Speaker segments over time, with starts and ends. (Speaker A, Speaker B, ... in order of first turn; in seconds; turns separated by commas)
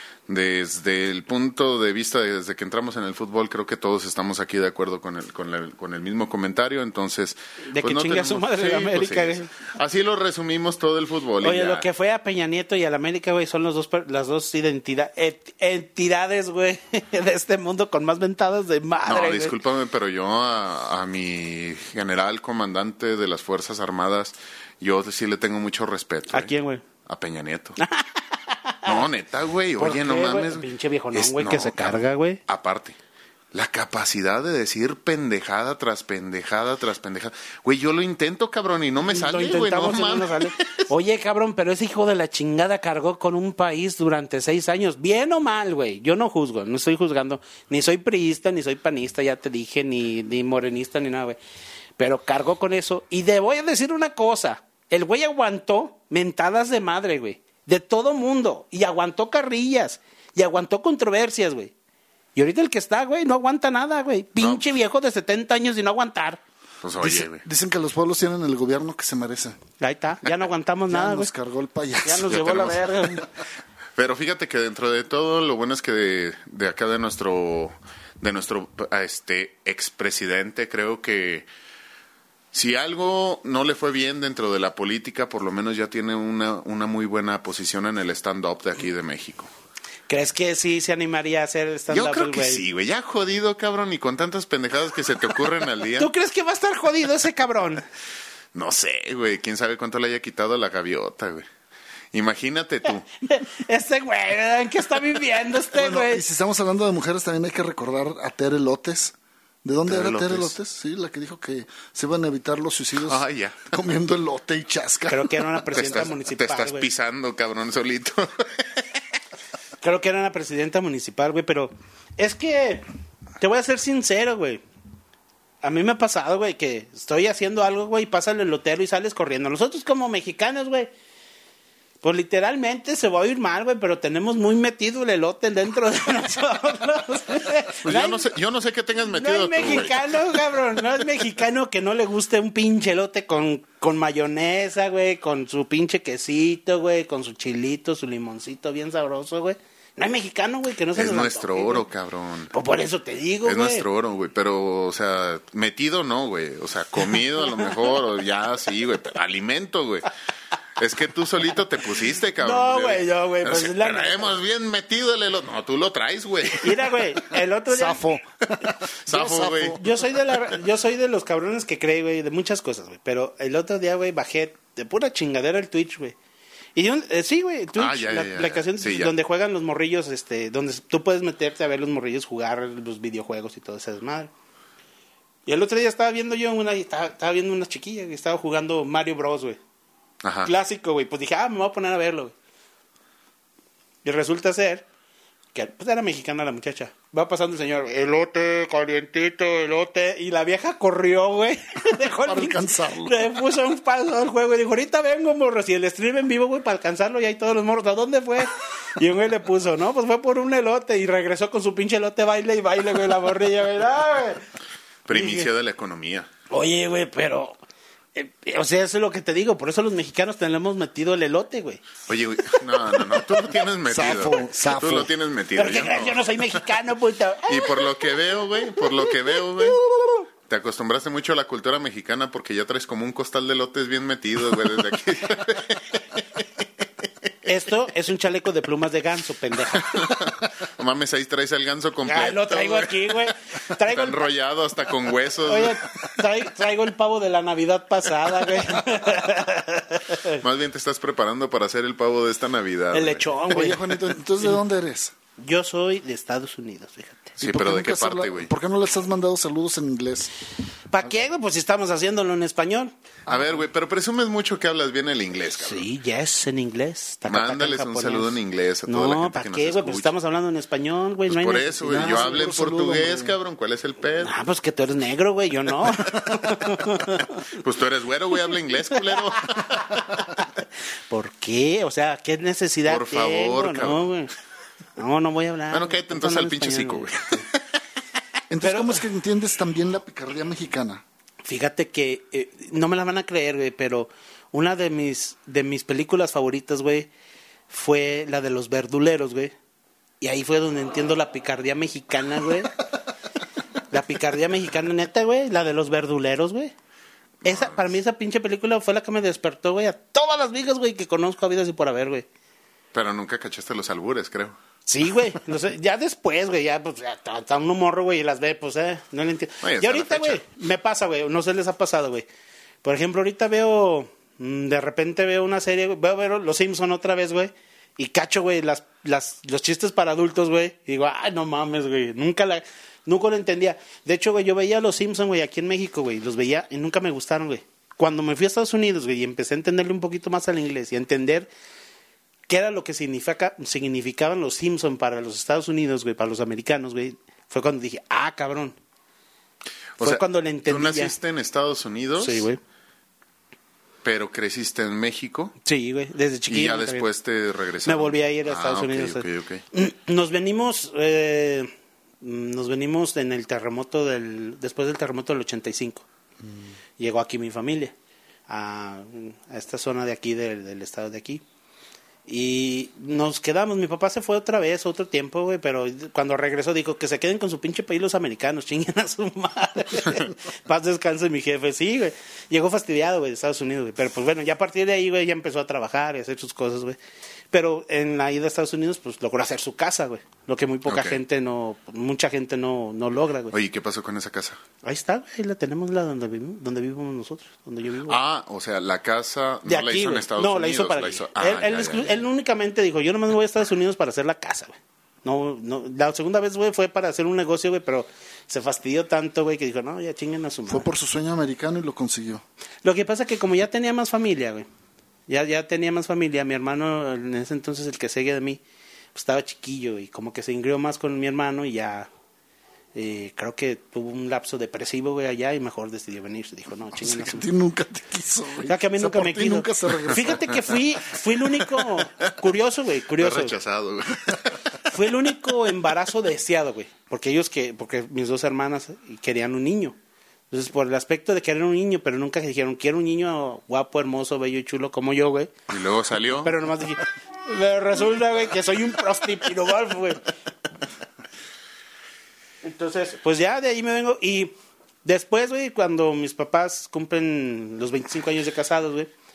Speaker A: 0.3-11.8, Speaker B: 7.7-9.5, Speaker B: 11.4-19.5, Speaker A: 19.1-26.5, Speaker B: 26.3-26.8, Speaker A: 27.0-27.8, Speaker B: 27.8-29.0, Speaker A: 28.9-33.0, Speaker B: 29.8-32.4, Speaker A: 33.5-40.7, Speaker B: 39.1-51.4, Speaker B: 52.0-61.7, Speaker B: 62.4-66.4, Speaker A: 64.4-64.6, Speaker A: 66.8-67.4, Speaker C: 67.0-69.6, Speaker B: 69.8-71.3, Speaker C: 70.9-72.7, Speaker B: 72.0-73.2, Speaker A: 72.3-72.8, Speaker A: 74.0-81.5, Speaker A: 82.5-89.5, Speaker B: 90.1-92.6, Speaker A: 91.9-96.1, Speaker B: 96.0-97.8, Speaker A: 98.5-101.5, Speaker A: 102.1-103.0, Speaker B: 103.3-106.2, Speaker C: 105.7-115.3, Speaker A: 109.9-110.5, Speaker A: 113.0-113.5, Speaker B: 115.1-116.9, Speaker A: 115.7-118.8, Speaker B: 119.8-122.8, Speaker B: 123.4-124.6, Speaker B: 125.6-130.9, Speaker B: 132.0-138.2, Speaker A: 137.8-140.0, Speaker B: 139.2-151.8, Speaker A: 150.9-152.5, Speaker B: 152.5-153.8, Speaker A: 153.4-160.1, Speaker A: 160.8-167.2, Speaker B: 162.4-164.3, Speaker B: 166.6-168.0, Speaker C: 167.7-169.8, Speaker A: 169.1-169.8, Speaker B: 169.7-176.2, Speaker B: 176.7-184.3, Speaker A: 177.8-179.1, Speaker B: 185.4-189.6, Speaker A: 190.2-190.5, Speaker B: 190.4-192.3, Speaker B: 194.0-194.8, Speaker B: 195.5-214.4, Speaker C: 202.2-203.3, Speaker A: 215.1-216.3, Speaker B: 215.1-215.5, Speaker B: 216.5-217.6, Speaker B: 218.2-221.8, Speaker A: 222.1-226.6, Speaker C: 223.9-225.1, Speaker B: 225.5-227.9, Speaker A: 227.5-229.8, Speaker B: 229.8-230.1, Speaker A: 230.4-236.2, Speaker B: 237.4-240.1, Speaker A: 239.8-245.9, Speaker B: 242.1-244.2, Speaker B: 245.4-250.4, Speaker A: 250.4-253.3, Speaker B: 252.9-253.9, Speaker C: 253.5-255.1, Speaker B: 255.4-257.3, Speaker A: 257.4-258.5, Speaker C: 257.4-260.3, Speaker B: 260.9-262.9, Speaker A: 263.3-265.9, Speaker B: 265.6-268.4, Speaker A: 267.3-270.1, Speaker B: 268.9-272.2, Speaker A: 271.3-274.3, Speaker C: 271.8-273.3, Speaker B: 274.2-277.4, Speaker A: 277.5-279.8, Speaker B: 279.5-280.5, Speaker B: 281.1-284.3, Speaker A: 282.9-284.0, Speaker B: 284.9-287.4, Speaker A: 285.7-287.6, Speaker C: 288.5-291.0, Speaker B: 288.6-289.0, Speaker B: 291.4-297.1, Speaker B: 297.7-299.5, Speaker B: 300.2-302.7, Speaker B: 303.9-306.7, Speaker A: 307.4-307.8, Speaker B: 307.4-312.2, Speaker A: 312.9-314.6, Speaker B: 314.9-322.2, Speaker A: 319.6-320.4, Speaker B: 322.8-341.5, Speaker B: 342.5-348.8, Speaker A: 350.0-352.5, Speaker B: 350.0-351.1, Speaker B: 352.2-352.6, Speaker A: 354.0-355.5, Speaker B: 355.6-357.1, Speaker A: 356.5-359.6, Speaker B: 357.8-366.0, Speaker B: 367.0-367.9, Speaker B: 368.5-371.4, Speaker B: 372.3-387.0, Speaker B: 387.5-393.5, Speaker A: 390.9-391.2, Speaker A: 393.5-394.6, Speaker B: 394.8-398.2, Speaker A: 398.1-402.2, Speaker B: 399.6-410.9, Speaker C: 410.7-412.4, Speaker B: 412.8-414.6, Speaker B: 415.3-418.6, Speaker B: 419.1-422.1, Speaker B: 422.9-427.5, Speaker C: 426.9-430.7, Speaker B: 428.7-433.5, Speaker A: 433.2-434.8, Speaker B: 434.9-439.9, Speaker B: 440.5-445.5, Speaker A: 445.7-446.6, Speaker B: 446.4-450.2, Speaker B: 452.6-459.1